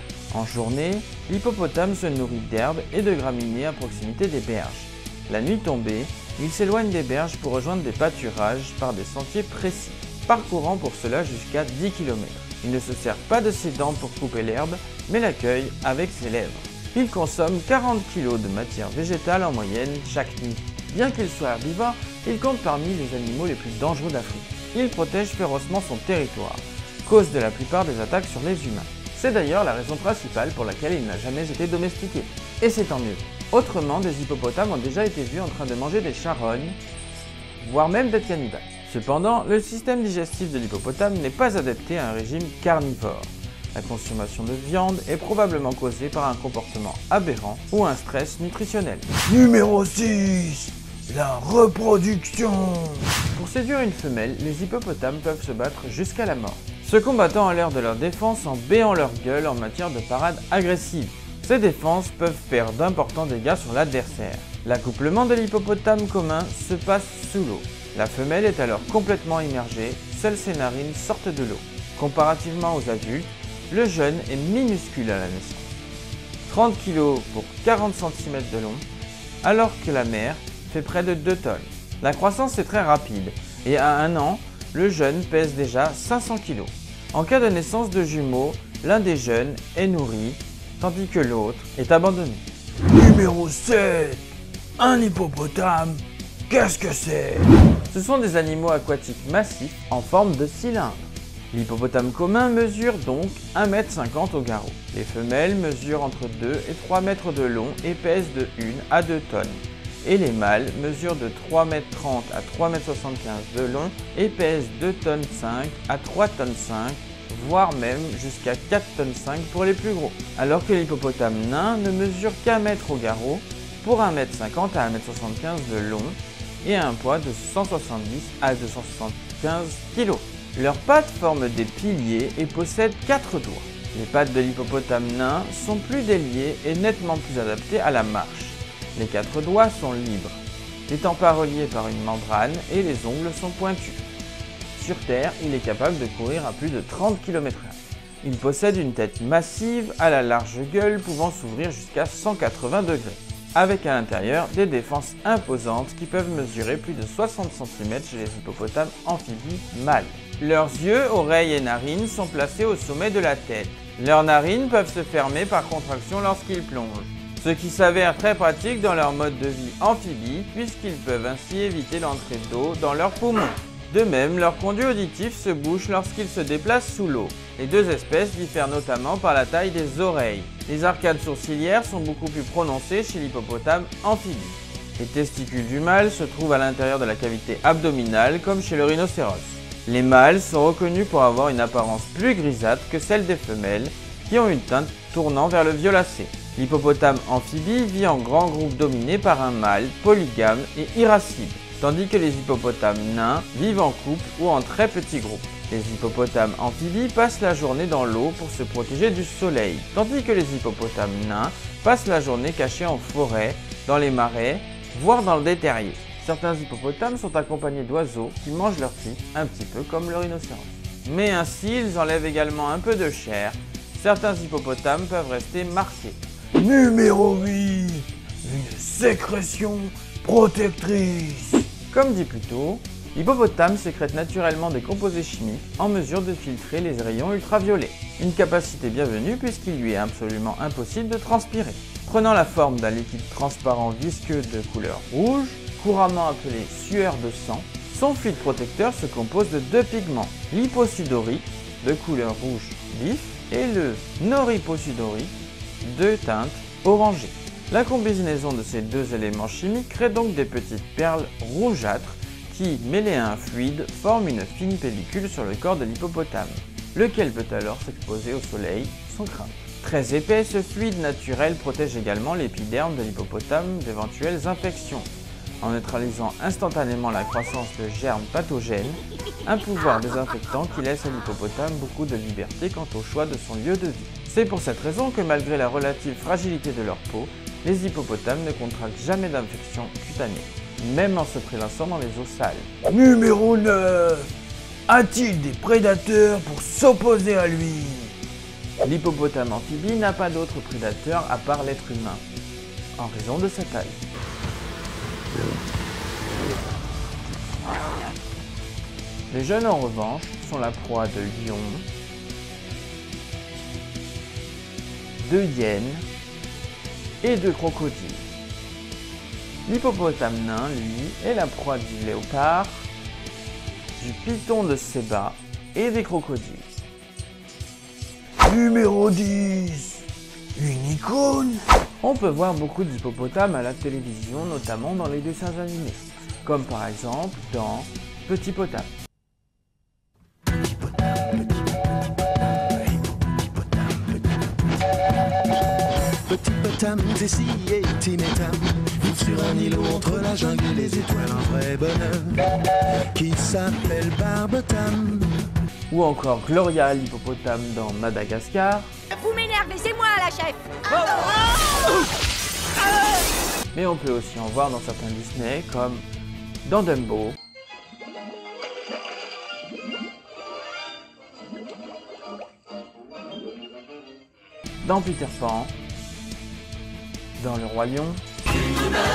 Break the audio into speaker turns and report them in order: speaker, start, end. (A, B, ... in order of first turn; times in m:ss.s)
0:00.3-0:36.8 A
0:37.6-0:49.1 A
0:49.3-0:53.1 B
0:53.2-1:15.7 A
1:16.5-1:18.8 A
1:19.4-1:32.4 A
1:32.9-1:34.2 B
1:34.8-1:37.5 B
1:37.9-2:24.1 A
2:24.8-3:46.2 A
3:46.6-3:51.6 B
3:51.9-4:35.1 A
4:35.6-4:52.8 A
4:52.9-4:54.3 B
4:54.9-4:58.1 B
4:58.8-5:02.2 A
5:03.0-5:04.0 A
5:09.3-5:11.9 A
5:15.2-5:16.1 A
5:17.2-5:18.2 A
5:19.7-5:22.9 A
5:24.0-5:26.7 A
5:28.4-5:30.0 B
5:30.6-5:31.6 B
5:32.0-5:38.9 A
5:41.1-5:41.4 C
5:43.6-5:44.1 C
5:46.1-5:55.4 C
5:55.9-5:58.9 A
5:59.1-6:02.1 D
6:03.7-6:06.1 A
6:06.6-6:07.4 A
6:14.8-6:15.7 A
6:17.4-6:18.2 A